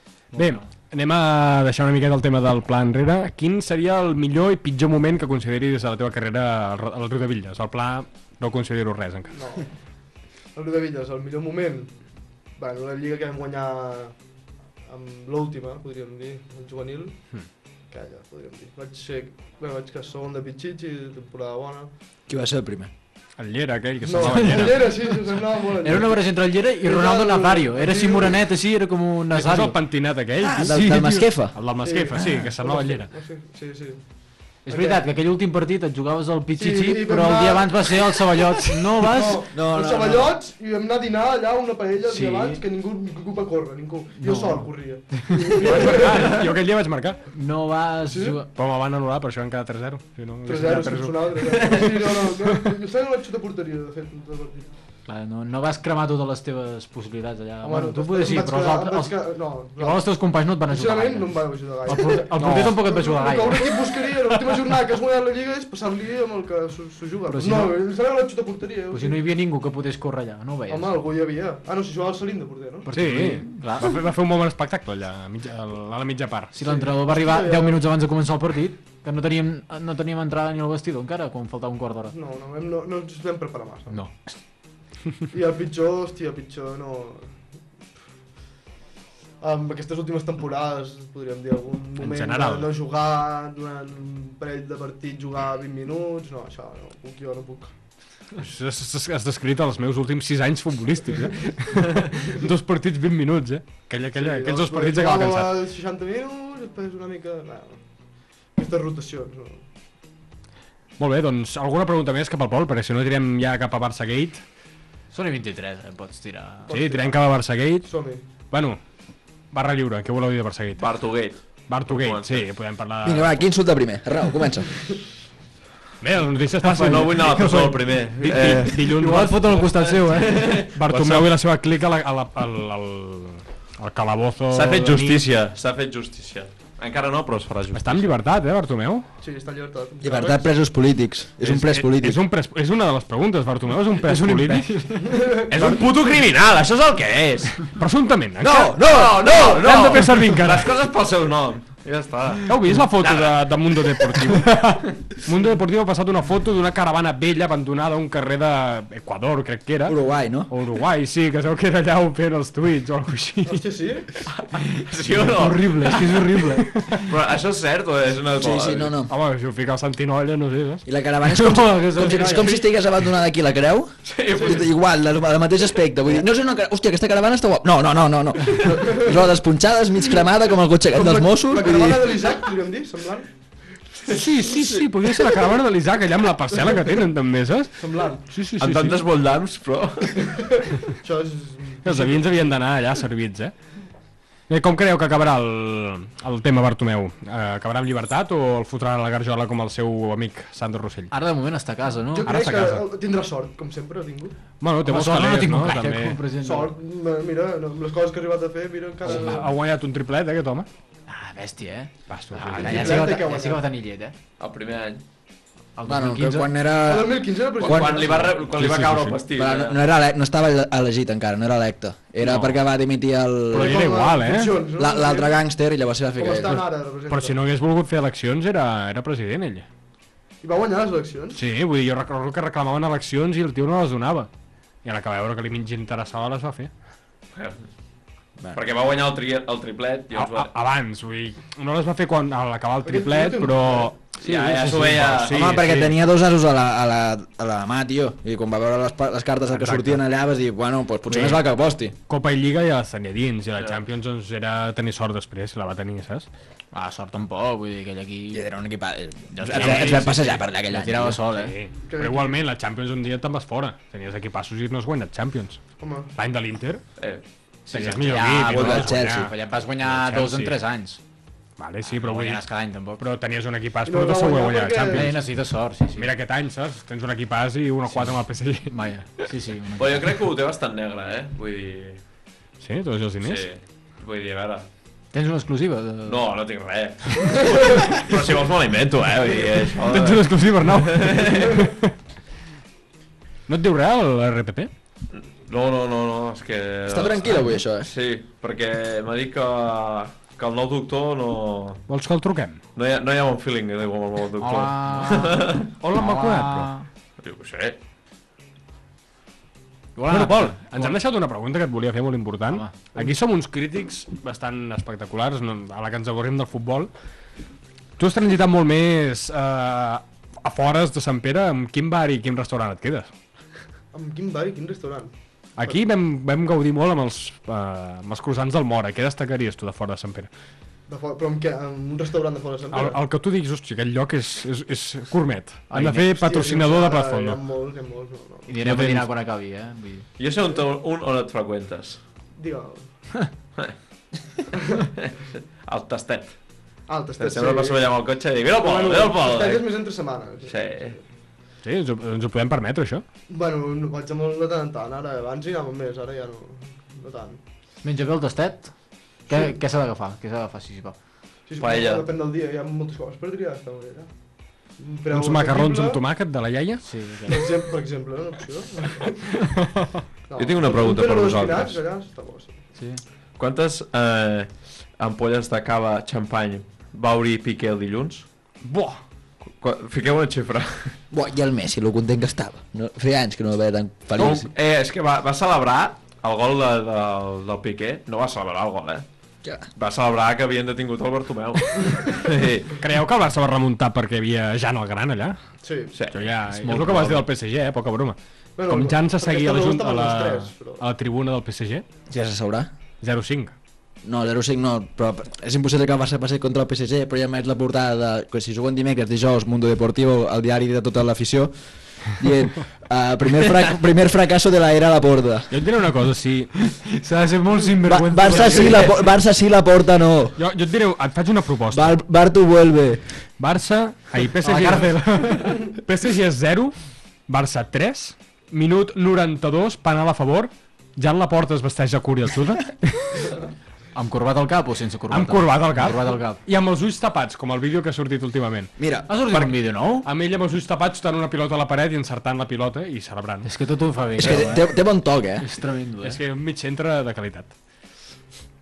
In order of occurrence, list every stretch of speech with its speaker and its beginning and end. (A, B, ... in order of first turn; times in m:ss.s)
0:00.3-0:00.7 A
0:00.4-0:09.4 B
0:09.3-0:09.7 C
0:10.5-0:12.0 C
0:12.5-0:14.2 C
0:14.8-0:21.9 C
0:22.3-0:22.9 D
0:23.4-0:24.9 B
0:24.0-0:28.4 C
0:24.4-0:24.9 A
0:25.8-0:29.8 A
0:29.3-0:30.8 B
0:30.4-0:31.6 D
0:30.6-0:31.3 A
0:31.5-0:33.1 B
0:31.8-0:34.0 C
0:34.6-0:39.4 A
0:34.7-0:35.0 C
0:36.6-0:46.4 C
0:39.5-0:40.4 D
0:42.0-0:42.6 A
0:44.2-0:46.1 A
0:45.6-0:47.2 B
0:47.3-0:48.5 A
0:48.1-0:48.4 C
0:48.6-0:52.6 B
0:50.4-0:54.7 C
0:55.1-1:03.7 A
0:57.6-1:09.2 C
1:02.4-1:02.8 B
1:07.3-1:07.8 A
1:08.9-1:10.9 A
1:10.7-1:12.9 C
1:12.9-1:13.9 A
1:12.9-1:16.5 B
1:16.5-1:22.1 A
1:16.6-1:17.8 C
1:22.1-1:24.0 C
1:23.9-1:24.2 A
1:25.3-1:27.4 C
1:29.4-1:37.7 C
1:32.0-1:32.7 B
1:38.4-1:45.5 B
1:44.2-1:49.6 C
1:51.0-1:54.4 B
1:55.1-1:56.7 A
1:56.7-1:58.2 C
1:56.7-1:57.9 B
1:58.5-1:58.8 B
1:59.5-2:00.9 B
2:00.8-2:02.5 E
2:01.7-2:03.4 B
2:03.0-2:04.8 D
2:06.0-2:09.6 B
2:06.6-2:10.6 A
2:06.8-2:08.9 E
2:09.5-2:11.3 E
2:10.7-2:15.2 B
2:14.5-2:18.1 E
2:17.7-2:19.1 B
2:19.2-2:20.5 C
2:20.0-2:22.2 D
2:21.5-2:24.9 B
2:24.0-2:25.2 A
2:25.0-2:25.5 C
2:25.5-2:27.7 E
2:27.7-2:30.7 B
2:28.4-2:29.9 D
2:28.6-2:34.4 E
2:32.5-2:43.6 B
2:39.9-2:40.5 D
2:43.5-2:44.1 C
2:44.3-2:46.2 E
2:45.2-2:47.1 A
2:47.1-2:49.0 E
2:48.4-2:49.1 D
2:49.1-2:50.8 B
2:50.9-3:02.2 D
2:51.4-2:52.6 A
2:54.0-2:54.7 E
2:54.4-2:54.6 C
3:00.9-3:03.3 C
3:04.1-3:09.0 B
3:07.8-3:08.2 C
3:08.6-3:10.2 E
3:10.3-3:12.5 C
3:11.8-3:13.5 B
3:14.5-3:21.1 B
3:21.1-3:22.8 A
3:22.1-3:24.3 C
3:24.6-3:26.2 B
3:24.8-3:26.7 A
3:26.4-3:29.5 C
3:29.0-3:30.7 B
3:31.1-3:34.2 A
3:32.1-3:33.0 B
3:32.6-3:33.6 C
3:34.4-3:35.0 E
3:35.8-3:36.5 A
3:35.9-3:38.4 D
3:36.8-3:38.4 C
3:37.6-3:39.8 E
3:38.6-3:39.2 B
3:39.3-3:43.9 D
3:42.2-3:42.6 B
3:43.5-3:44.6 B
3:43.5-3:45.4 C
3:44.8-3:46.6 D
3:46.2-3:47.4 C
3:47.1-3:49.7 B
3:50.4-3:51.4 C
3:51.4-3:54.3 B
3:54.8-3:56.7 B
3:57.3-3:57.6 E
3:58.5-4:00.5 E
4:00.1-4:06.0 B
4:02.8-4:03.9 C
4:04.2-4:05.6 E
4:05.2-4:11.9 D
4:09.5-4:10.0 B
4:12.1-4:16.3 B
4:16.7-4:18.5 A
4:18.3-4:21.2 D
4:19.3-4:21.5 A
4:19.5-4:20.3 B
4:21.3-4:25.6 B
4:21.9-4:22.4 C
4:25.8-4:26.1 C
4:26.2-4:26.8 B
4:27.0-4:27.2 E
4:27.7-4:30.6 B
4:27.7-4:31.0 A
4:28.4-4:29.3 D
4:31.6-4:32.4 B
4:31.8-4:33.0 A
4:33.0-4:35.3 B
4:33.8-4:35.2 C
4:34.9-4:36.1 A
4:36.0-4:38.7 B
4:37.9-4:40.2 A
4:39.8-4:42.0 E
4:42.6-4:43.5 B
4:43.2-4:44.7 E
4:45.1-4:46.4 A
4:46.1-4:51.6 E
4:49.8-4:51.9 B
4:53.5-4:54.7 B
4:55.1-5:01.8 E
4:56.9-4:57.9 D
5:01.9-5:02.6 B
5:02.8-5:05.7 E
5:04.4-5:06.9 A
5:05.8-5:06.7 B
5:07.2-5:07.8 E
5:10.0-5:11.0 A
5:10.1-5:16.9 B
5:12.5-5:13.1 A
5:18.0-5:23.1 B
5:23.9-5:25.1 C
5:25.6-5:30.3 B
5:30.9-5:33.0 C
5:32.7-5:37.4 B
5:35.7-5:36.1 A
5:36.1-5:38.5 C
5:38.5-5:40.1 A
5:38.6-5:39.1 B
5:40.2-5:42.0 E
5:42.4-5:42.9 C
5:45.0-5:46.4 E
5:46.9-5:51.0 C
5:47.2-5:49.9 E
5:50.5-5:51.0 E
5:51.6-5:53.0 B
5:53.3-5:57.4 C
5:57.8-6:01.0 A
6:01.5-6:04.1 C
6:01.6-6:02.1 E
6:04.8-6:06.0 C
6:05.1-6:06.9 B
6:06.8-6:07.4 A
6:07.3-6:09.5 C
6:10.3-6:12.6 C
6:10.4-6:11.8 E
6:12.8-6:13.0 A
6:13.4-6:18.2 E
6:18.6-6:19.0 B
6:19.5-6:21.0 E
6:21.1-6:24.5 D
6:24.2-6:29.0 E
6:29.8-6:32.8 E
6:32.8-6:35.4 B
6:35.6-6:36.0 C
6:35.9-6:36.3 E
6:36.1-6:41.8 B
6:36.5-6:37.3 A
6:38.6-6:40.8 C
6:42.1-6:42.7 D
6:43.0-6:43.5 B
6:44.0-6:55.6 D
6:55.5-6:56.6 B
6:56.9-6:58.9 A
6:57.8-7:00.4 D
7:00.4-7:02.0 B
7:01.7-7:03.0 D
7:03.4-7:06.8 B
7:04.4-7:05.6 A
7:07.3-7:13.3 B
7:14.0-7:16.4 A
7:15.1-7:18.7 B
7:18.8-7:19.1 D
7:19.1-7:20.1 A
7:19.3-7:23.5 B
7:23.4-7:24.8 A
7:24.2-7:25.5 D
7:25.4-7:26.2 A
7:26.0-7:27.5 B